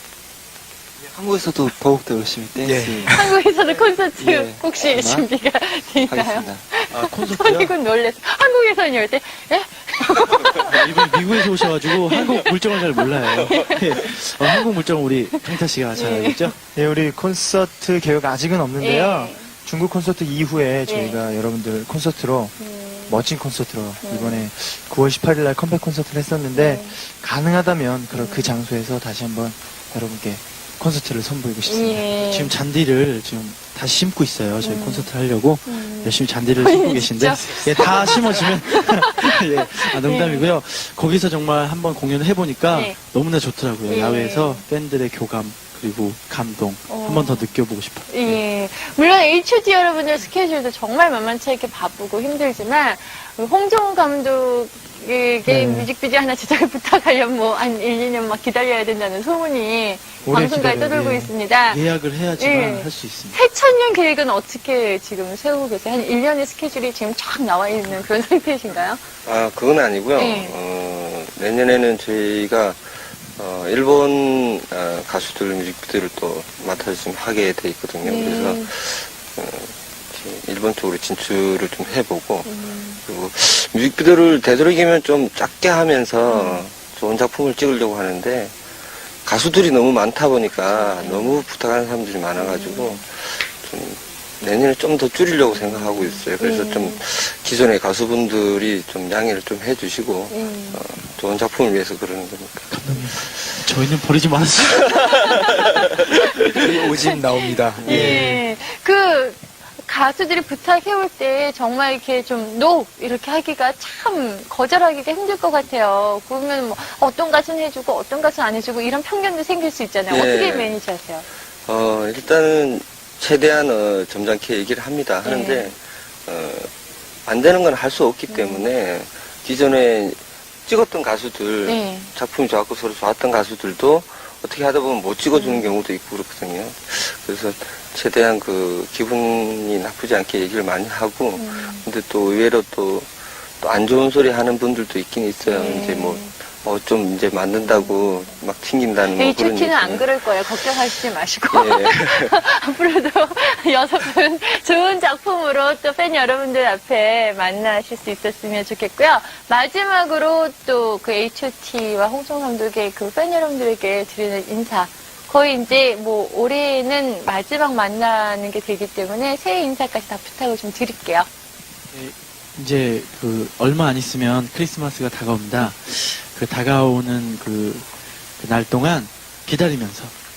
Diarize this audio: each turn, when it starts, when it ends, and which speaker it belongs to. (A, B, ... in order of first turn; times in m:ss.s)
0:01.1-0:03.1 A
0:02.6-0:03.3 B
0:03.1-0:14.7 C
0:04.2-0:05.3 A
0:06.0-0:06.6 A
0:06.9-0:07.7 D
0:10.6-0:16.6 D
0:15.9-0:16.5 C
0:16.7-0:22.6 E
0:18.8-0:19.5 C
0:20.9-0:21.2 C
0:22.6-0:23.2 C
0:23.1-0:32.1 E
0:24.0-0:24.5 C
0:26.5-0:27.0 C
0:28.1-0:28.5 C
0:31.6-0:32.5 C
0:32.2-0:48.4 D
0:34.6-0:35.1 C
0:35.6-0:39.1 C
0:39.8-0:40.5 C
0:42.7-0:43.0 C
0:43.9-0:44.6 C
0:46.9-0:47.5 C
0:48.1-1:01.8 C
0:55.5-0:55.9 E
1:00.3-1:03.4 D
1:00.3-1:01.3 E
1:02.4-1:09.0 C
1:09.2-1:22.5 F
1:10.2-1:10.6 C
1:18.0-1:18.7 C
1:22.4-1:23.0 C
1:23.0-1:28.6 F
1:26.2-1:26.6 C
1:29.2-1:42.7 F
1:30.7-1:31.4 C
1:32.4-1:33.0 C
1:35.5-1:37.0 C
1:40.3-1:40.8 C
1:42.7-1:45.4 D
1:46.5-1:48.2 B
1:47.4-2:01.2 C
1:47.8-1:48.4 D
1:47.8-1:48.2 F
2:00.1-2:00.7 F
2:01.6-2:06.7 F
2:05.2-2:05.7 C
2:07.2-2:30.1 F
2:08.3-2:08.7 C
2:11.6-2:12.1 C
2:15.3-2:15.8 C
2:21.4-2:21.8 C
2:25.4-2:26.3 C
2:27.6-2:28.3 C
2:29.1-2:51.3 C
2:31.5-2:32.4 F
2:51.9-3:00.1 D